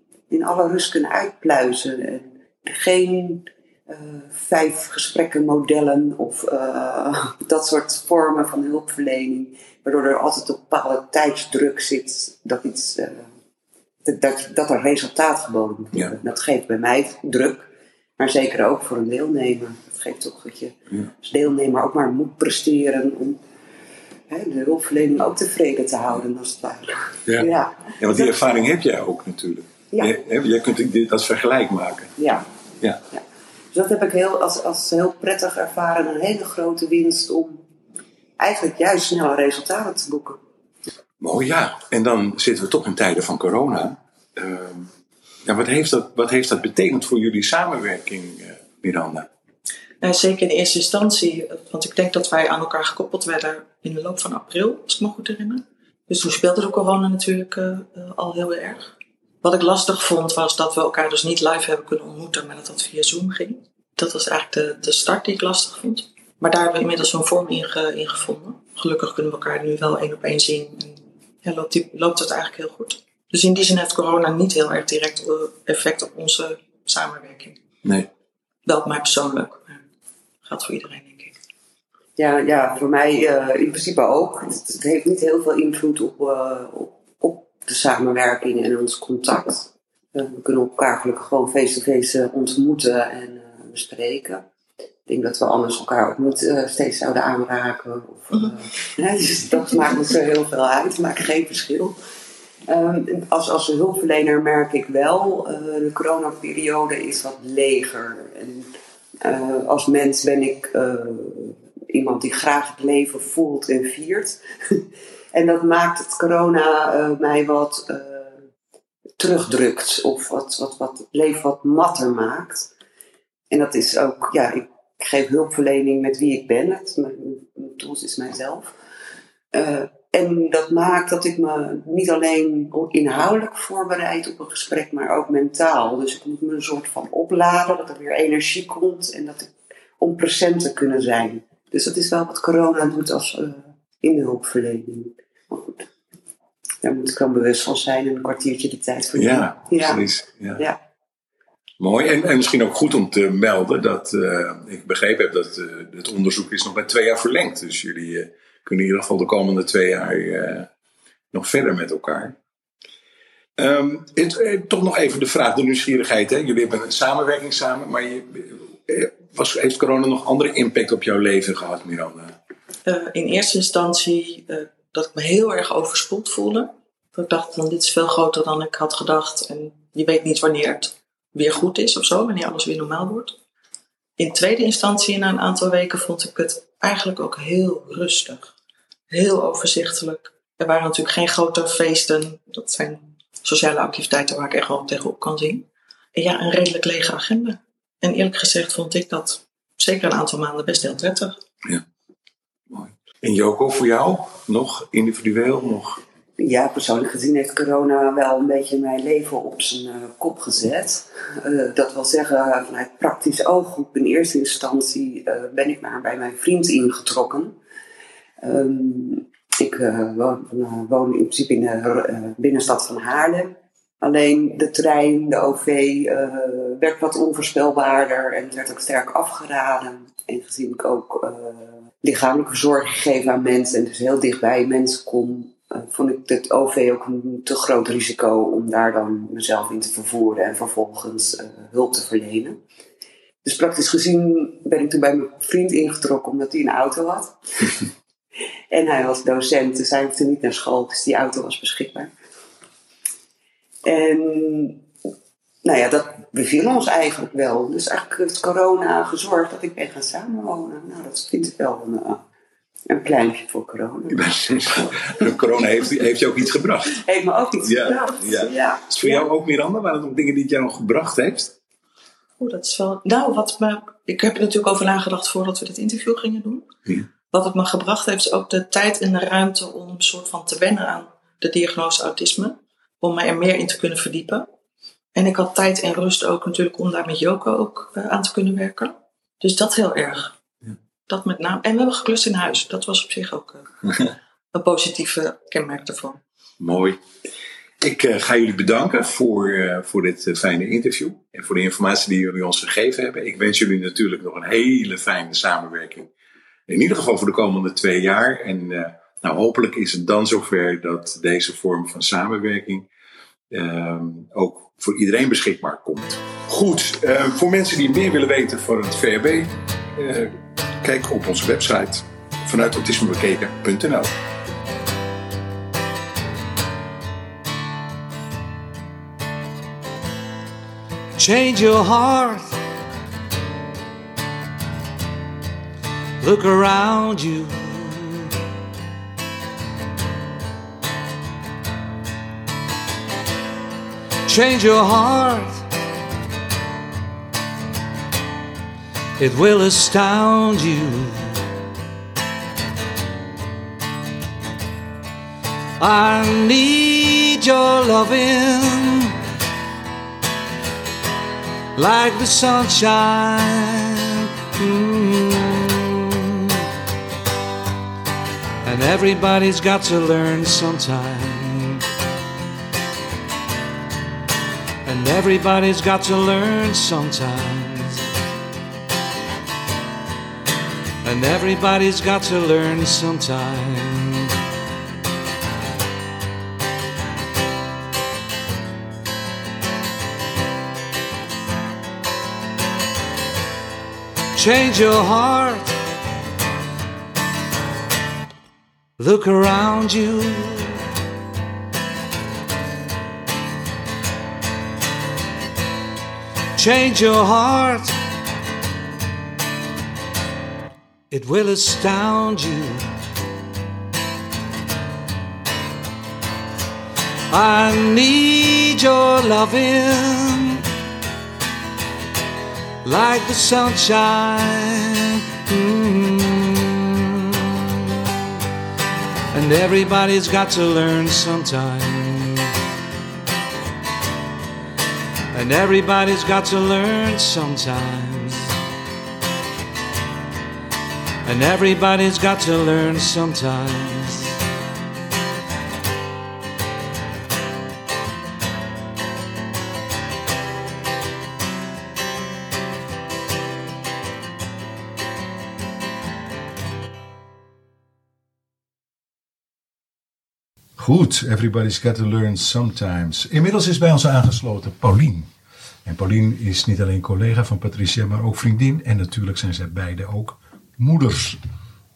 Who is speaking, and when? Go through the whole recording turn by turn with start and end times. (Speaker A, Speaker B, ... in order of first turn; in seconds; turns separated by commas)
Speaker A: 0.3-13.3, Speaker A: 14.0-23.4, Speaker A: 24.3-28.4, Speaker B: 28.0-32.1, Speaker A: 32.2-32.5, Speaker A: 33.1-37.6, Speaker A: 38.4-40.4, Speaker B: 41.2-44.9, Speaker B: 45.5-49.3, Speaker C: 50.0-58.9, Speaker C: 59.4-77.6, Speaker C: 78.7-79.8, Speaker C: 80.5-81.3, Speaker A: 82.2-94.5, Speaker A: 95.1-102.0, Speaker A: 102.7-118.3, Speaker A: 119.2-122.7, Speaker A: 123.5-128.8, Speaker A: 129.5-145.8, Speaker A: 146.8-150.0, Speaker B: 149.2-150.6, Speaker B: 151.8-160.7, Speaker B: 161.3-162.3, Speaker B: 163.6-172.3, Speaker C: 172.9-183.4, Speaker C: 184.2-188.5, Speaker C: 189.1-201.4, Speaker B: 202.7-206.0, Speaker A: 206.4-217.6, Speaker A: 218.4-242.6, Speaker A: 243.4-247.8, Speaker A: 248.7-252.1, Speaker A: 253.8-254.9, Speaker A: 255.6-262.2, Speaker A: 262.9-264.3, Speaker B: 264.1-267.0, Speaker A: 266.9-269.3, Speaker B: 267.6-271.5, Speaker C: 272.4-276.7, Speaker C: 277.3-284.5, Speaker C: 285.1-290.4, Speaker C: 291.1-293.6, Speaker C: 294.5-296.2, Speaker B: 296.6-297.0, Speaker B: 297.8-306.1, Speaker B: 306.7-312.9, Speaker B: 313.5-324.1, Speaker D: 331.2-332.6, Speaker D: 336.2-338.3, Speaker D: 344.3-345.7, Speaker D: 349.2-351.4, Speaker D: 355.8-359.2, Speaker D: 361.8-366.6, Speaker D: 368.6-371.8, Speaker D: 374.9-378.1, Speaker D: 381.0-384.3, Speaker D: 394.4-395.7, Speaker D: 399.0-400.8, Speaker D: 406.6-408.0, Speaker D: 411.1-412.9, Speaker D: 417.3-420.6, Speaker D: 422.8-428.1, Speaker D: 429.3-432.5, Speaker D: 435.3-438.6, Speaker D: 441.2-444.4, Speaker B: 460.8-465.3, Speaker B: 465.9-471.4